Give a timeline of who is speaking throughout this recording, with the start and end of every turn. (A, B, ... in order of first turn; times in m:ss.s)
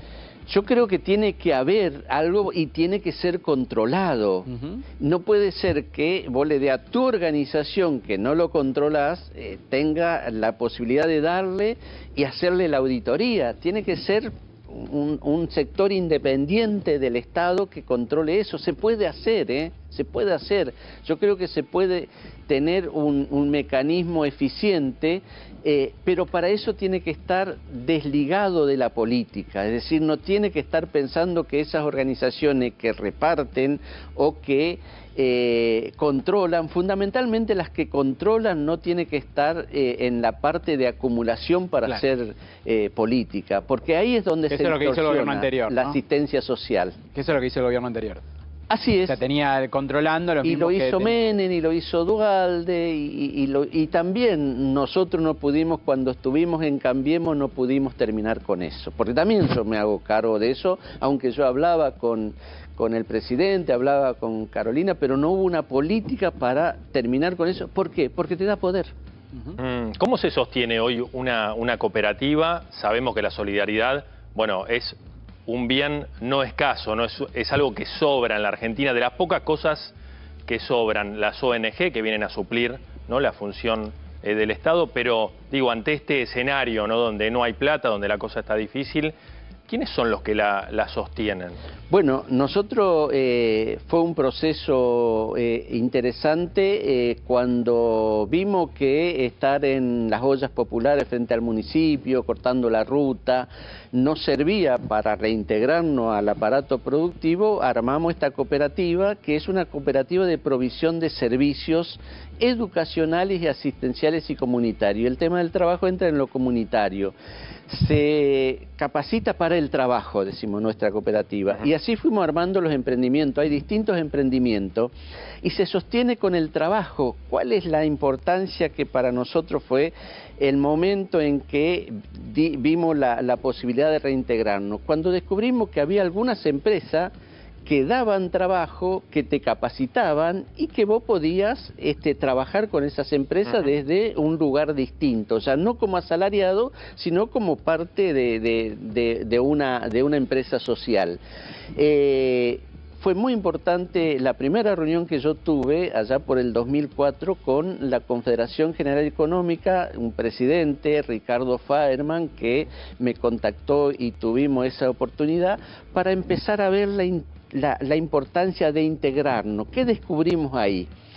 0:00.5-0:04.5 A
0:04.5-0:04.8 B
0:05.0-0:47.0 A
0:44.5-0:46.0 B
0:47.1-0:48.2 B
0:48.7-0:49.2 A
0:49.0-0:51.2 B
0:50.4-1:08.9 A
1:09.6-1:19.9 C
1:20.5-1:29.1 C
1:29.7-1:31.6 C
1:31.9-1:57.1 A
1:57.7-2:17.1 A
2:17.6-2:31.2 A
2:31.8-2:50.9 A